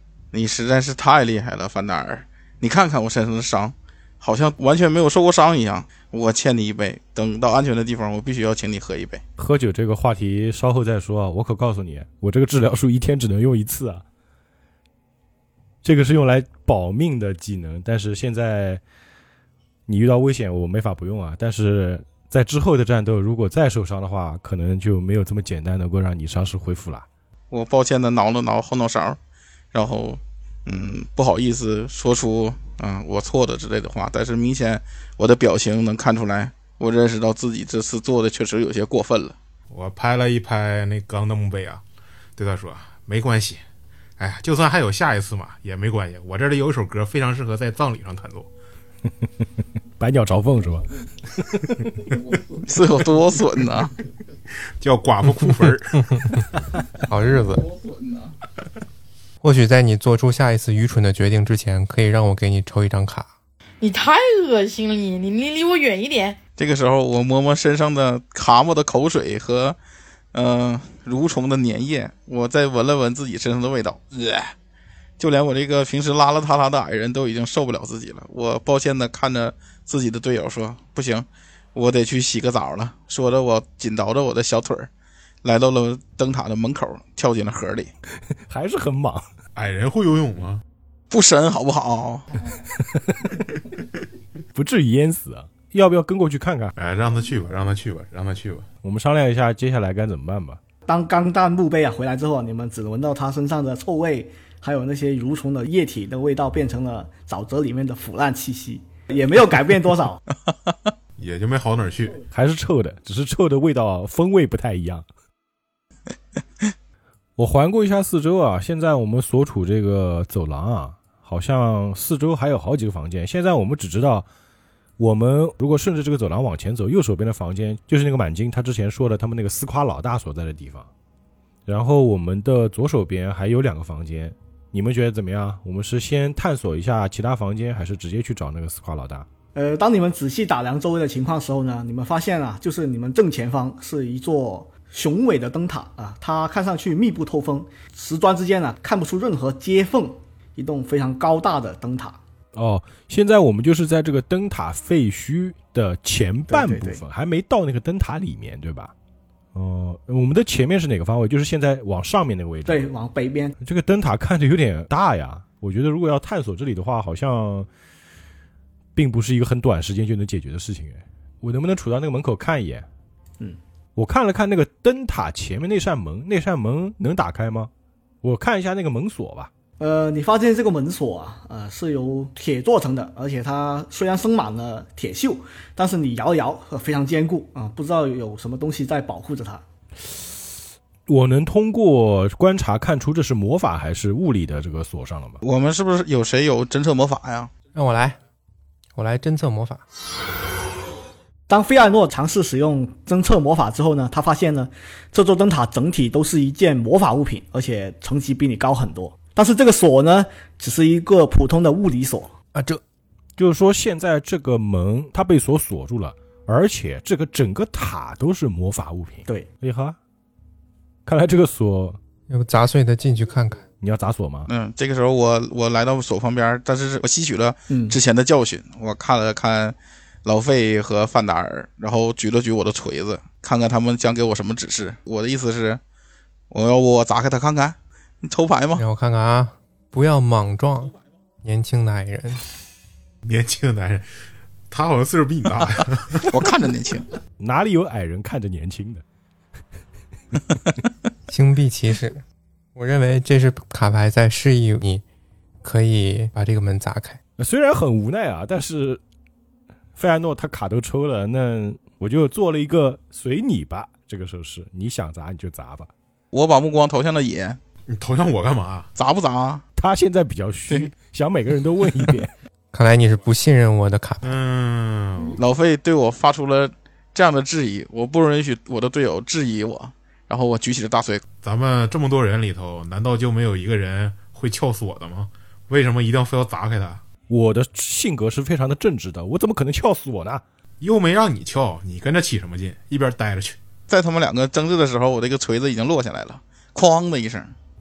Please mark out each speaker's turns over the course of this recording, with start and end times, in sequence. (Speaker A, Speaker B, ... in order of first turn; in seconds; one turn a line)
Speaker A: 0.3-9.2
Speaker B: 9.4-14.0
Speaker B: 15.8-18.8
Speaker B: 19.9-27.1
Speaker A: 27.5-29.2
Speaker A: 29.7-39.4
Speaker C: 39.7-41.8
Speaker C: 42.4-43.6
Speaker C: 44.2-48.5
Speaker B: 50.0-51.9
Speaker A: 52.6-53.9
Speaker C: 54.8-56.4
Speaker D: 57.0-57.7
Speaker D: 59.4-63.3
Speaker E: 63.8-66.4
Speaker A: 66.6-69.8
Speaker A: 70.3-74.5
Speaker A: 75.2-84.9
Speaker A: 85.4-87.9
Speaker B: 88.3-89.3
Speaker C: 89.5-90.6
Speaker A: 91.1-92.3
Speaker B: 92.7-93.4
Speaker B: 94.5-96.7
Speaker C: 96.8-98.7
Speaker B: 98.8-100.6
Speaker F: 100.8-110.2
Speaker C: 111.2-112.2
Speaker B: 112.3-115.0
Speaker B: 117.4-124.3
Speaker B: 125.0-130.9
Speaker B: 131.7-139.3
Speaker F: 139.5-152.2
Speaker B: 152.5-158.9
Speaker F: 156.5-157.0
Speaker B: 159.5-162.9
Speaker F: 162.7-163.5
Speaker B: 163.6-167.7
Speaker B: 168.9-172.9
Speaker B: 173.9-177.7
Speaker B: 178.2-179.5
Speaker F: 179.8-189.6
Speaker B: 191.1-195.4
Speaker A: 195.4-197.5
Speaker D: 197.7-198.2
Speaker D: 198.9-199.8
Speaker F: 201.5-212.3
Speaker D: 212.5-212.8
Speaker B: 213.4-220.0
Speaker B: 221.1-222.0
Speaker D: 222.3-223.6
Speaker B: 223.8-224.5
Speaker A: 224.5-235.8
Speaker F: 227.7-228.0
Speaker A: 236.5-238.8
Speaker D: 238.8-242.4
Speaker C: 243.2-244.1
Speaker C: 244.7-246.4
Speaker A: 246.2-247.1
Speaker B: 247.4-249.0
Speaker D: 251.3-252.2
Speaker D: 252.7-255.0
Speaker D: 255.6-257.2
Speaker B: 257.4-259.0
Speaker B: 259.9-265.9
Speaker A: 266.3-267.6
Speaker C: 267.9-268.9
Speaker A: 268.9-269.6
Speaker B: 269.8-272.3
Speaker D: 272.7-274.4
Speaker C: 274.2-275.4
Speaker A: 275.3-281.2
Speaker C: 281.4-287.0
Speaker B: 287.3-290.4
Speaker C: 290.8-293.6
Speaker A: 293.9-297.5